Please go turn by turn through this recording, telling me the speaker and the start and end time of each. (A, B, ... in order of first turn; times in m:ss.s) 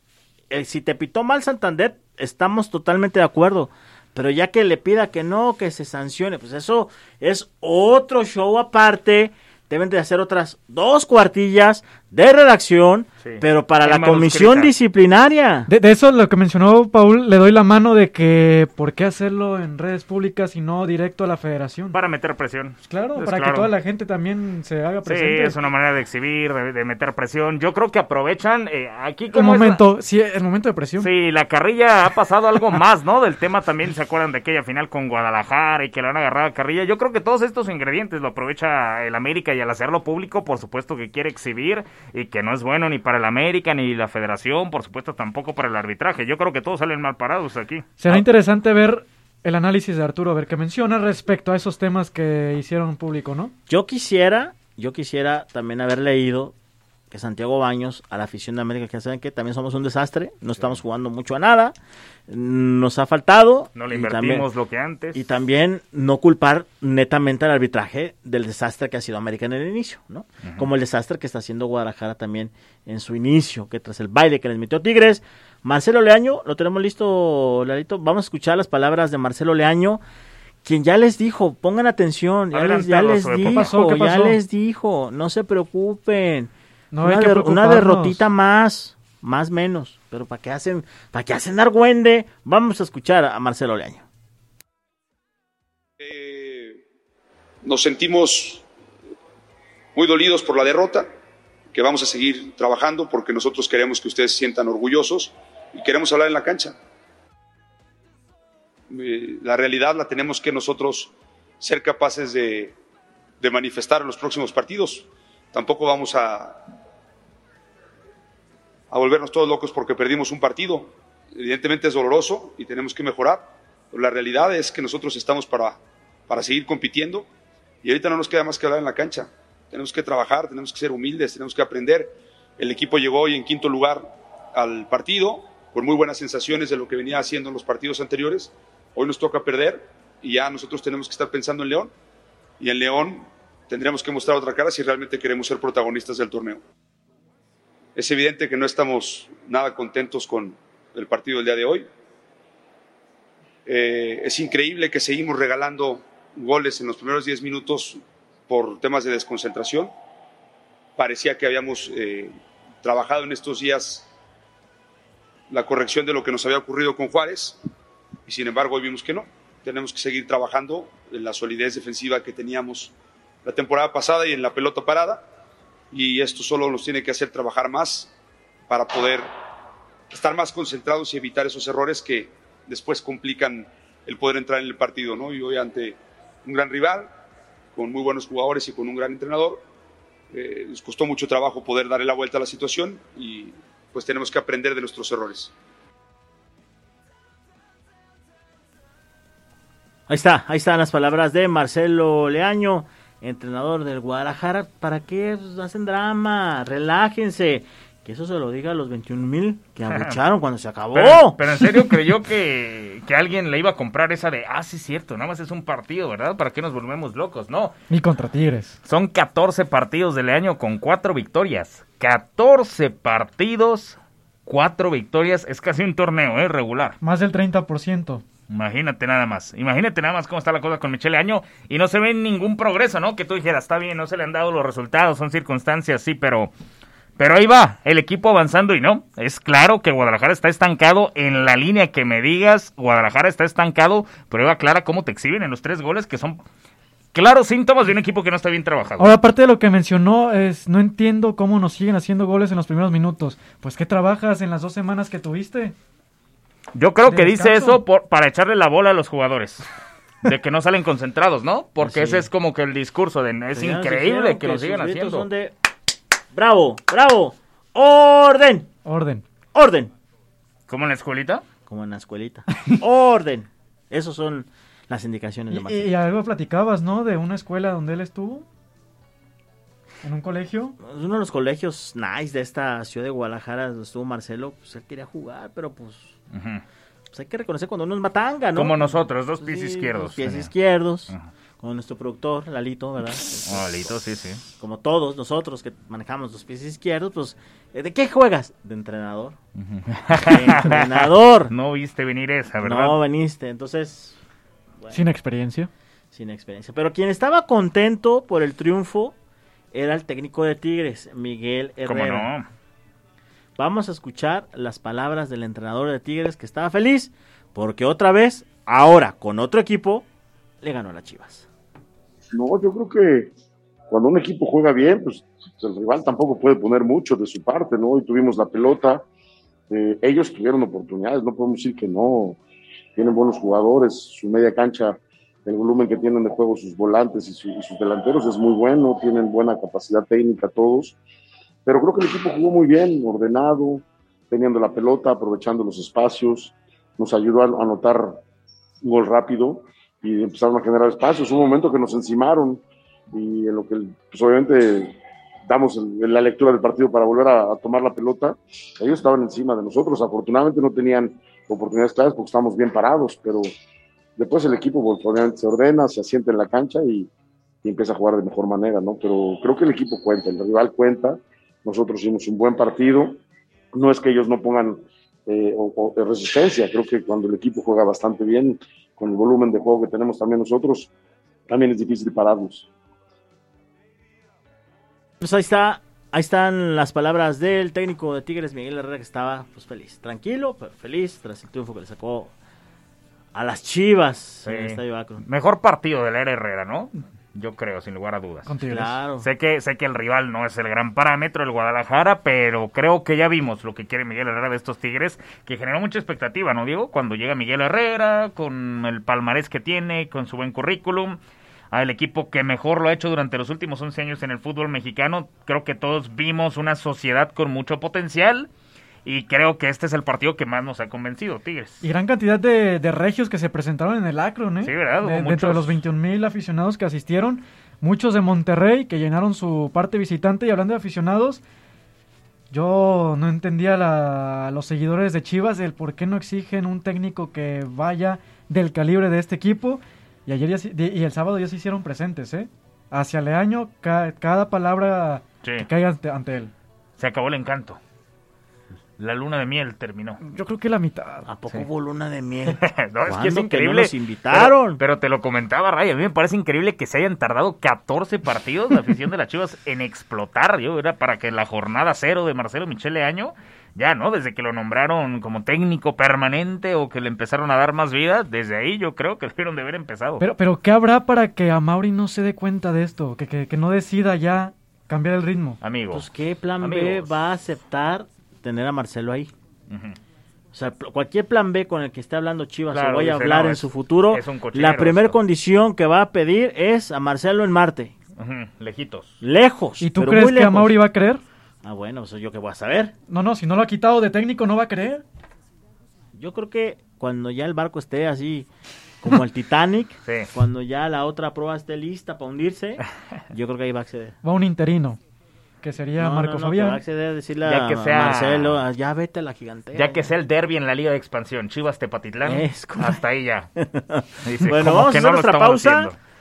0:00.5-0:15.7 A
0:13.2-0:14.7 B
0:15.7-0:22.0 C
0:21.9-0:23.7 B
0:22.8-0:25.6 C
0:25.0-0:29.8 B
0:29.3-0:31.1 C
0:31.0-0:48.2 B
0:48.0-0:53.5 C
0:53.7-0:56.5 A
0:57.1-1:01.7 A
1:02.3-1:04.5 A
1:03.7-1:05.2 B
1:05.1-1:20.0 A
1:20.6-1:34.0 A
1:22.5-1:23.7 B
1:23.4-1:24.4 C
1:26.9-1:28.2 C
1:36.0-1:36.8 D
1:37.6-1:38.6 D
1:39.9-1:41.1 D
1:41.7-1:46.7 D
1:48.9-1:52.7 D
1:53.4-1:56.7 D
1:58.9-2:07.3 D
2:07.8-2:21.9 D
2:22.6-2:26.6 D
2:28.0-2:31.8 D
2:33.6-2:39.9 D
2:41.0-2:44.1 D
2:45.5-2:47.6 D
2:48.3-2:52.9 D
2:53.4-2:55.2 D
2:55.9-2:58.1 D
2:58.7-2:59.3 D
3:00.1-3:07.1 D
3:07.7-3:09.6 D
3:10.3-3:15.5 D
3:20.1-3:31.4 A
3:29.9-3:30.2 B
3:30.9-3:37.7 B
3:37.9-3:38.8 C
3:38.8-3:47.0 B
3:47.0-3:48.2 C
3:48.5-3:56.5 B
3:57.2-4:06.4 B
4:07.1-4:09.1 B
4:09.0-4:15.8 C
4:16.7-4:19.6 B
4:17.0-4:17.8 C
4:20.2-4:25.2 B
4:21.8-4:22.3 A
4:23.5-4:25.5 A
4:26.3-4:28.7 A
4:28.8-4:29.2 C
4:29.5-4:29.9 A
4:30.7-4:31.4 B
4:31.6-4:35.9 A
4:35.5-4:38.4 C
4:40.0-4:40.8 C
4:40.8-4:46.2 A
4:46.3-4:46.6 B
4:47.1-4:54.0 A
4:48.5-4:50.5 B
4:53.4-4:54.4 B
4:54.6-4:59.4 A
4:59.6-5:03.0 B
5:00.2-5:01.5 A
5:02.6-5:04.2 A
5:04.9-5:05.7 C
5:06.1-5:09.1 A
5:09.7-5:12.3 A
5:11.8-5:12.5 B
5:13.6-5:20.0 A
5:20.6-5:21.5 A
5:22.3-5:23.3 E
5:23.9-5:29.0 E
5:29.7-5:32.4 E
5:33.0-5:41.0 E
5:41.6-5:48.2 E
5:48.8-5:55.0 E
5:55.5-6:03.5 E
6:04.2-6:07.1 E
6:07.6-6:13.2 E
6:13.7-6:20.9 E
6:21.5-6:22.7 E
6:25.2-6:32.3 A
6:33.3-6:35.2 A
6:34.4-6:38.5 B
6:38.4-6:39.0 C
6:38.7-6:39.3 A
6:39.2-6:51.2 B
6:51.7-6:58.5 B
6:59.0-7:01.8 B
7:01.8-7:11.4 C
7:04.6-7:05.7 B
7:12.5-7:26.5 C
7:27.0-7:27.8 B
7:29.0-7:30.2 B
7:30.2-7:31.3 C
7:31.2-7:34.8 A
7:32.5-7:50.2 B
7:50.2-7:55.6 C
7:55.6-7:56.0 B
7:55.9-7:59.3 A
7:56.6-7:57.1 B
7:59.7-8:00.0 B
8:00.5-8:07.9 A
8:02.7-8:05.2 B
8:08.2-8:09.2 B
8:09.2-8:10.7 A
8:09.8-8:11.2 C
8:11.6-8:12.9 A
8:13.1-8:15.0 C
8:16.1-8:18.5 A
8:19.0-8:24.2 A
8:24.2-8:25.0 C
8:25.6-8:26.8 C
8:26.0-8:30.1 A
8:27.4-8:28.6 B
8:29.7-8:33.5 B
8:32.2-8:33.0 A
8:33.6-8:35.9 A
8:34.2-8:36.0 B